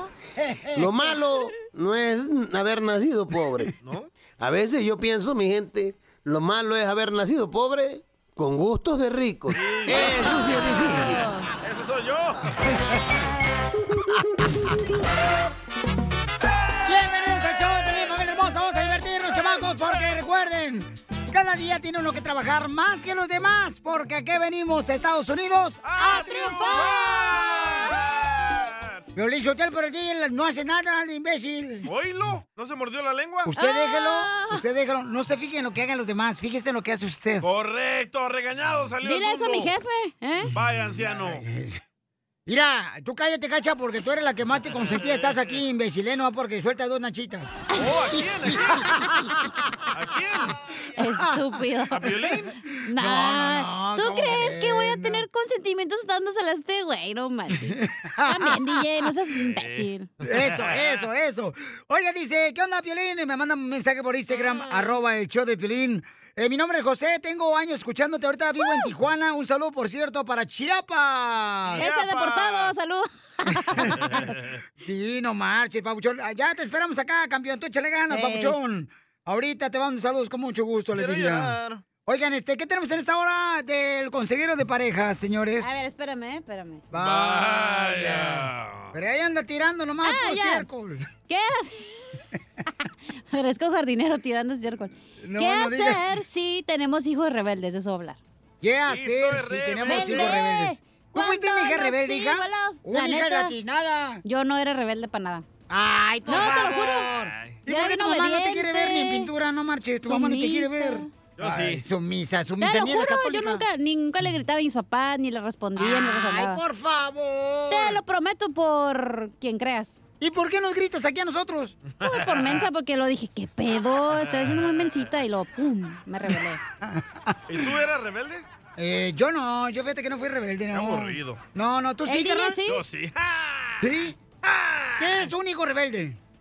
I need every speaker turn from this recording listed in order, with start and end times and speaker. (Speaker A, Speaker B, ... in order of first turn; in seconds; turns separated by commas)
Speaker A: 0.3-0.9, Speaker B: 0.7-3.7, Speaker C: 3.8-4.1, Speaker B: 4.4-11.2, Speaker C: 9.5-10.4, Speaker D: 10.1-11.5, Speaker C: 11.6-12.8, Speaker A: 16.8-27.8, Speaker C: 25.8-29.0, Speaker A: 29.1-31.9, Speaker C: 31.9-33.5, Speaker A: 33.5-37.5, Speaker D: 33.6-34.6, Speaker C: 37.4-39.7, Speaker D: 39.0-40.5, Speaker C: 40.5-41.4, Speaker A: 41.0-41.8, Speaker A: 42.5-47.5, Speaker C: 44.9-45.5, Speaker C: 47.7-48.9, Speaker A: 48.8-49.5, Speaker C: 49.9-50.6, Speaker D: 51.0-52.1, Speaker C: 51.9-52.5, Speaker D: 52.8-60.1, Speaker A: 53.0-55.2, Speaker A: 57.7-58.8, Speaker C: 59.4-61.0, Speaker A: 60.2-71.8, Speaker C: 64.3-64.7, Speaker D: 68.6-68.9, Speaker C: 71.7-72.8, Speaker D: 71.8-74.0, Speaker A: 73.6-81.5, Speaker C: 74.0-74.3, Speaker D: 78.1-78.5, Speaker C: 80.9-81.8, Speaker A: 82.0-85.8, Speaker D: 85.6-86.8, Speaker A: 86.9-91.1, Speaker C: 86.9-88.9, Speaker D: 90.0-90.7, Speaker D: 91.3-92.2, Speaker D: 93.3-98.2, Speaker A: 95.2-96.2, Speaker A: 98.6-104.2, Speaker C: 98.9-100.5, Speaker D: 99.8-103.5, Speaker D: 104.2-105.5, Speaker A: 105.7-113.6, Speaker D: 106.3-107.1, Speaker C: 107.2-107.6, Speaker D: 107.7-109.3, Speaker D: 110.0-111.1, Speaker C: 111.4-111.8, Speaker D: 112.6-116.6, Speaker A: 115.8-118.0, Speaker D: 117.7-120.0, Speaker A: 120.2-121.8, Speaker C: 121.9-122.7, Speaker D: 122.0-126.6, Speaker C: 124.3-124.6, Speaker A: 126.8-127.3, Speaker C: 127.5-128.4, Speaker A: 128.8-132.6, Speaker C: 130.7-131.4, Speaker D: 132.0-132.8, Speaker C: 132.7-133.9, Speaker A: 133.8-134.2, Speaker C: 134.4-135.3, Speaker A: 135.0-136.2